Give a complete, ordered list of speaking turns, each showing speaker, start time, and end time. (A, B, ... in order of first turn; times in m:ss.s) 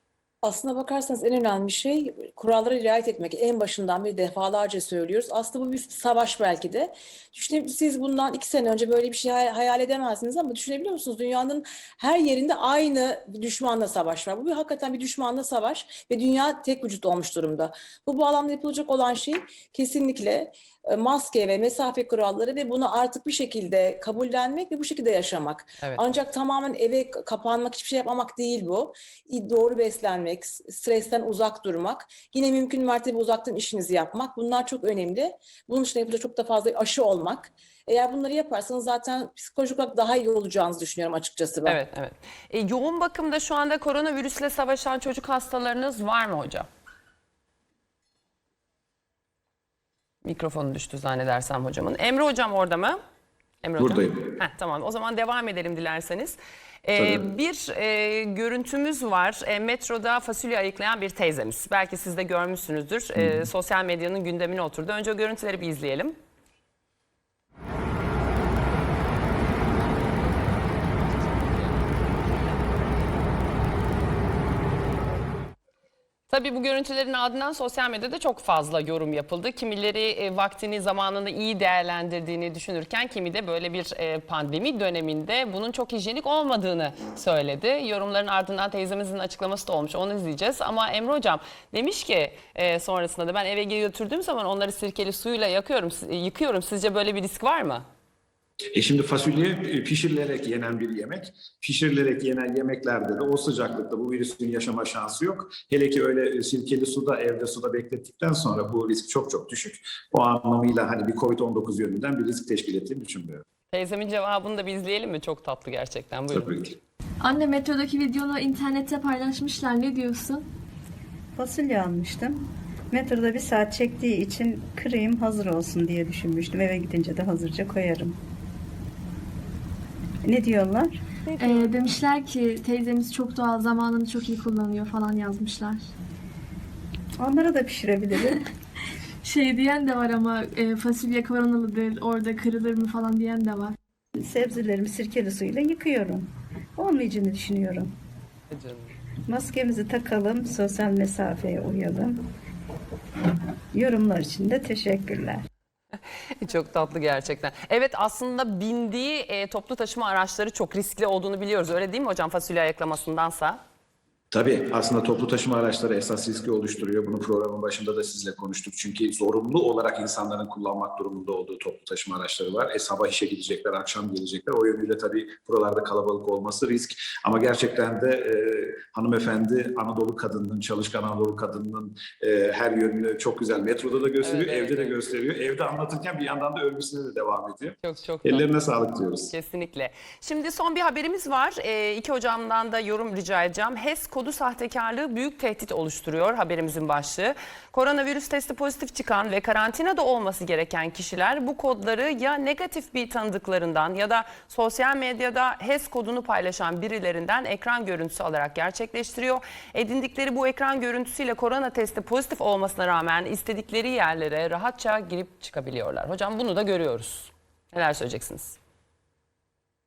0:00.4-0:41.8 A
0:41.6-0:46.7 B
0:50.2-0:53.0 B
0:53.6-1:06.1 B
0:53.8-0:54.4 C
0:57.0-0:57.2 C
1:16.3-1:37.8 B
1:38.7-1:53.4 C
1:53.7-1:56.6 B
1:56.3-1:56.8 C
1:57.2-2:00.4 D
2:01.4-2:08.2 E
2:10.2-2:11.6 E
2:11.3-2:15.8 D
2:17.2-2:18.5 E
2:19.2-2:23.7 D
2:24.1-2:27.9 E
2:29.2-2:32.2 E
2:33.7-2:35.4 E
2:36.4-2:43.6 B
2:44.3-3:09.3 C
3:04.2-3:05.0 B
3:07.8-3:08.5 B
3:09.3-3:38.6 B